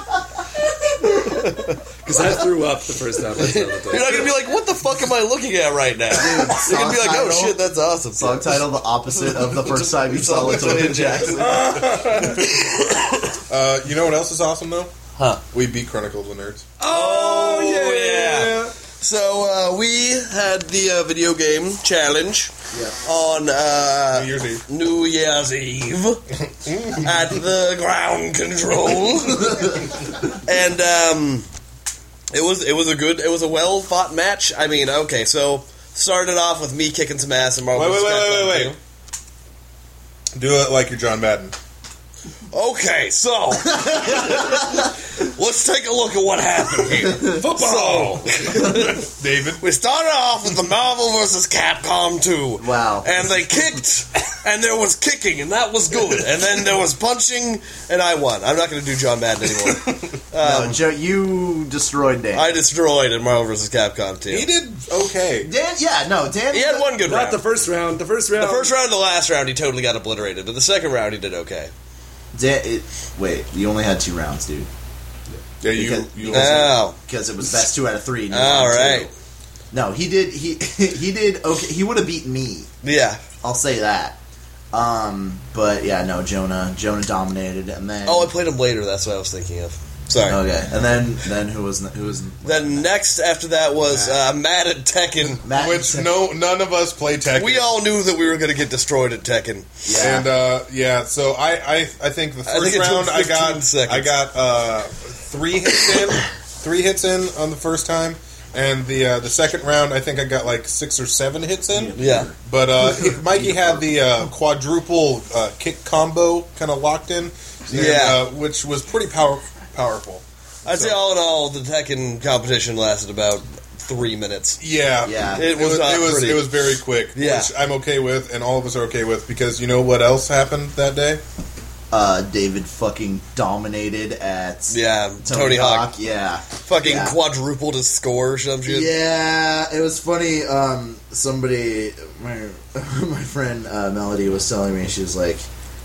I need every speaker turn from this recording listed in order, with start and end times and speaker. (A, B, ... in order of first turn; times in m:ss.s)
0:01.1-0:01.8 A
0:02.0-0:04.3 B
0:03.4-0:08.6 A
0:06.1-0:07.6 C
0:08.2-0:11.8 C
0:09.2-0:13.0 A
0:11.3-0:12.5 B
0:12.2-0:12.7 D
0:13.5-0:14.9 D
0:15.2-0:15.4 A
0:15.5-0:16.7 D
0:16.8-0:18.7 B
0:16.8-0:26.2 A
0:24.1-0:24.6 D
0:26.5-0:27.3 D
0:26.9-0:29.7 A
0:30.3-0:31.5 A
0:32.3-0:38.8 A
0:37.7-0:38.8 D
0:40.4-0:41.6 D
0:42.5-0:49.0 A
0:47.1-0:47.4 C
0:47.2-0:48.5 B
0:48.5-0:49.6 D
0:49.6-1:00.8 A
0:52.6-0:53.1 C
1:00.4-1:02.6 C
1:02.3-1:04.5 A
1:04.3-1:05.5 D
1:05.4-1:07.0 C
1:06.5-1:07.4 A
1:07.0-1:08.7 B
1:08.4-1:11.7 A
1:12.3-1:14.7 C
1:15.6-1:16.7 D
1:15.7-1:19.1 C
1:16.3-1:17.0 A
1:18.3-1:19.1 A
1:19.7-1:22.7 C
1:22.8-1:23.2 A
1:23.4-1:24.2 C
1:24.7-1:28.3 C
1:28.0-1:30.4 A
1:30.2-1:32.9 C
1:32.4-1:35.4 A
1:33.9-1:34.2 C
1:35.4-1:36.2 C
1:35.5-1:37.8 D
1:37.4-1:40.2 A
1:39.8-1:40.3 C
1:40.0-1:52.0 D
1:42.4-1:44.1 A
1:51.7-1:53.8 C
1:52.0-1:52.3 A
1:52.5-2:01.0 D
1:57.7-1:58.2 A
2:00.6-2:04.6 A
2:04.6-2:11.2 D
2:05.0-2:05.5 C
2:05.4-2:06.6 A
2:07.1-2:07.5 A
2:11.9-2:17.2 C
2:14.7-2:15.9 A
2:16.6-2:18.9 A
2:18.7-2:25.5 C